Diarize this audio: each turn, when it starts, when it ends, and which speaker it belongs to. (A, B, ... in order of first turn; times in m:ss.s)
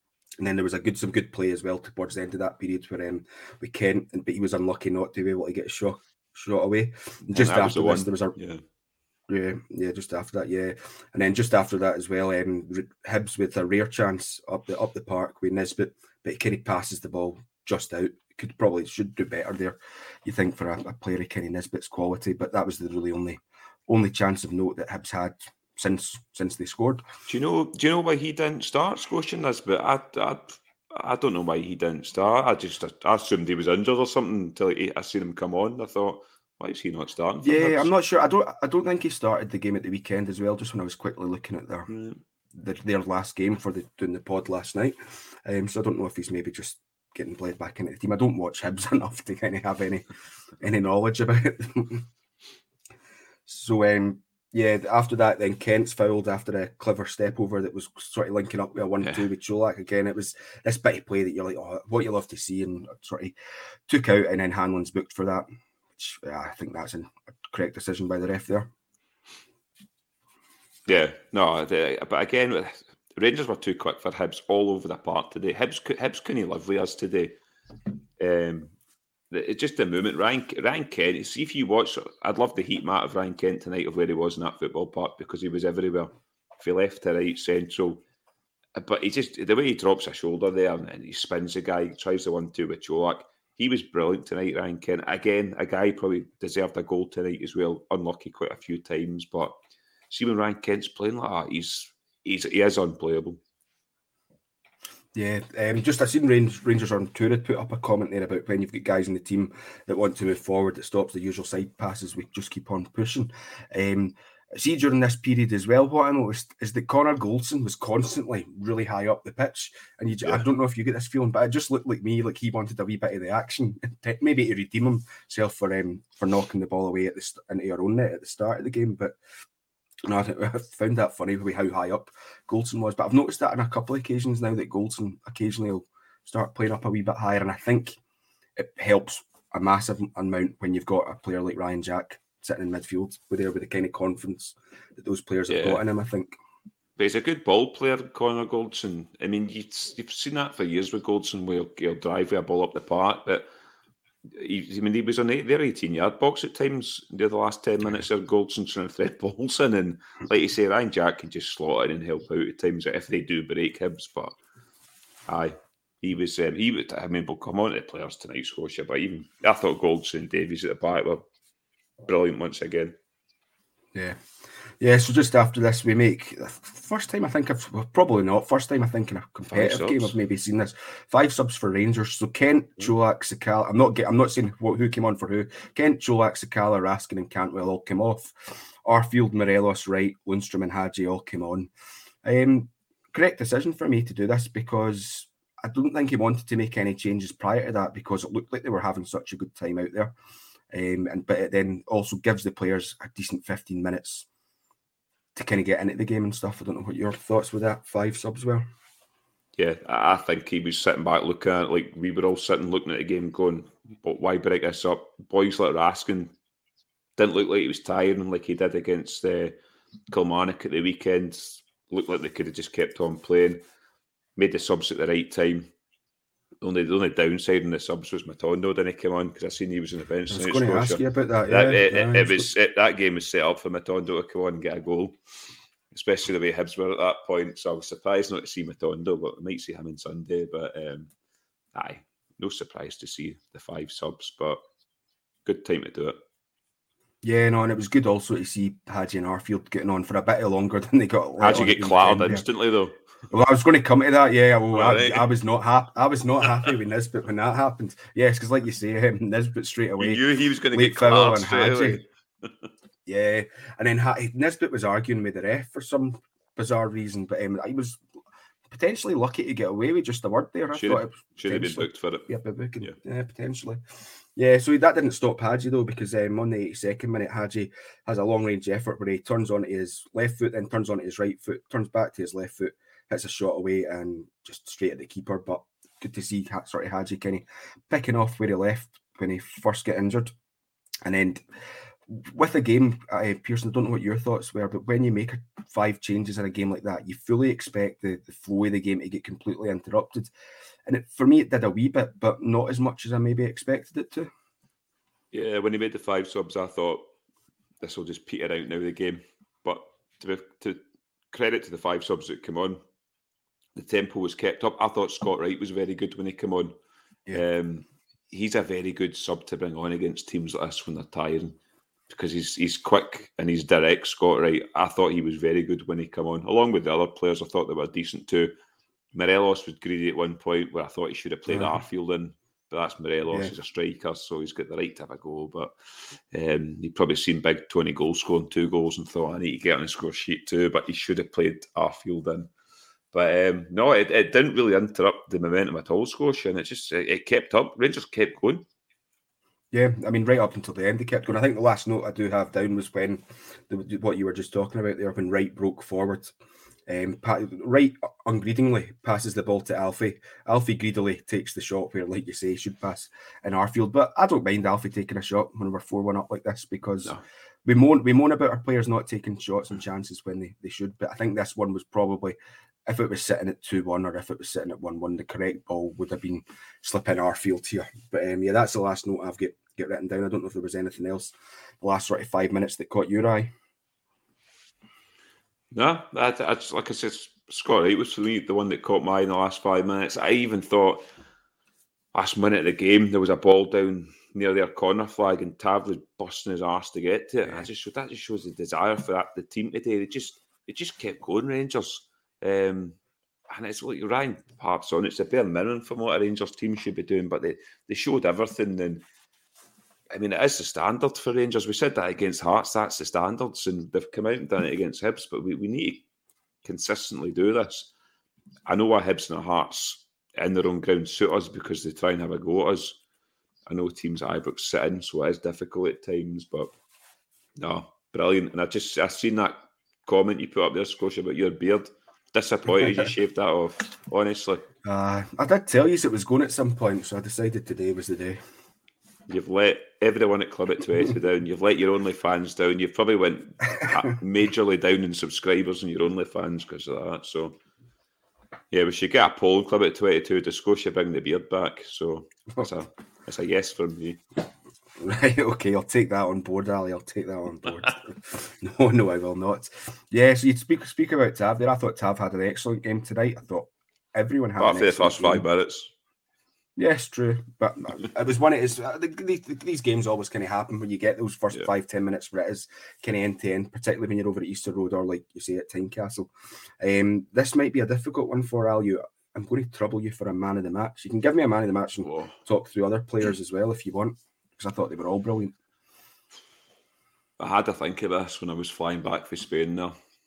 0:00.4-0:08.4 A
0:07.3-0:08.6 B
0:09.3-0:27.0 A
0:27.3-0:37.9 B
0:37.4-0:41.9 A
0:41.9-0:42.2 B
0:42.5-0:50.1 A
0:50.6-0:52.1 A
0:53.5-1:03.4 A
1:03.9-1:05.5 A
1:06.0-1:08.7 A
1:10.9-1:17.4 B
1:18.2-1:18.7 B
1:19.3-1:28.0 B
1:28.8-1:39.6 B
1:40.1-1:43.4 B
1:45.2-2:09.2 A
2:10.0-2:18.0 A
2:18.6-2:26.4 A
2:25.5-2:25.8 B
2:27.0-2:33.5 B
2:34.3-2:44.4 B
2:45.3-2:51.2 B
2:52.0-2:53.0 B
2:53.9-2:54.2 A
2:54.8-3:11.7 A
2:59.5-3:00.2 B
3:12.2-3:20.1 A
3:20.7-3:24.3 A
3:25.4-3:28.7 A
3:29.6-3:36.3 B
3:37.2-3:39.6 B
3:40.1-3:43.6 B
3:44.4-3:45.7 B
3:46.6-3:55.2 B
3:50.3-3:52.5 A
3:55.9-4:01.1 B
4:01.8-4:04.6 B
4:05.4-4:06.2 B
4:07.2-4:12.4 A
4:11.4-4:13.0 B
4:13.3-4:22.0 A
4:14.7-4:15.3 B
4:20.0-4:22.5 B
4:23.1-4:28.0 A
4:28.7-4:33.8 A
4:30.7-4:32.3 B
4:34.4-4:50.3 A
4:51.0-4:51.4 A
4:52.1-5:00.3 A
5:00.9-5:04.3 A
5:05.3-5:07.1 B
5:07.8-5:10.8 B
5:11.3-5:12.8 B
5:13.8-5:16.7 B
5:17.3-5:21.6 B
5:22.1-5:28.6 B
5:29.1-5:35.7 B
5:31.5-5:31.8 A
5:36.3-5:42.5 B
5:43.1-5:48.6 B
5:49.7-5:56.3 A
5:56.9-6:23.5 A
6:25.7-6:31.1 B
6:32.1-6:49.0 B
6:50.1-6:56.0 B
6:56.6-6:57.9 B
6:58.7-7:03.0 B
7:03.7-7:06.7 B
7:07.6-7:14.6 B
7:14.8-7:18.4 A
7:19.3-7:27.6 B
7:28.7-7:34.2 B
7:35.0-7:45.5 A
7:44.6-7:45.9 B
7:46.8-8:05.6 A
8:02.0-8:02.3 B
8:07.4-8:10.0 B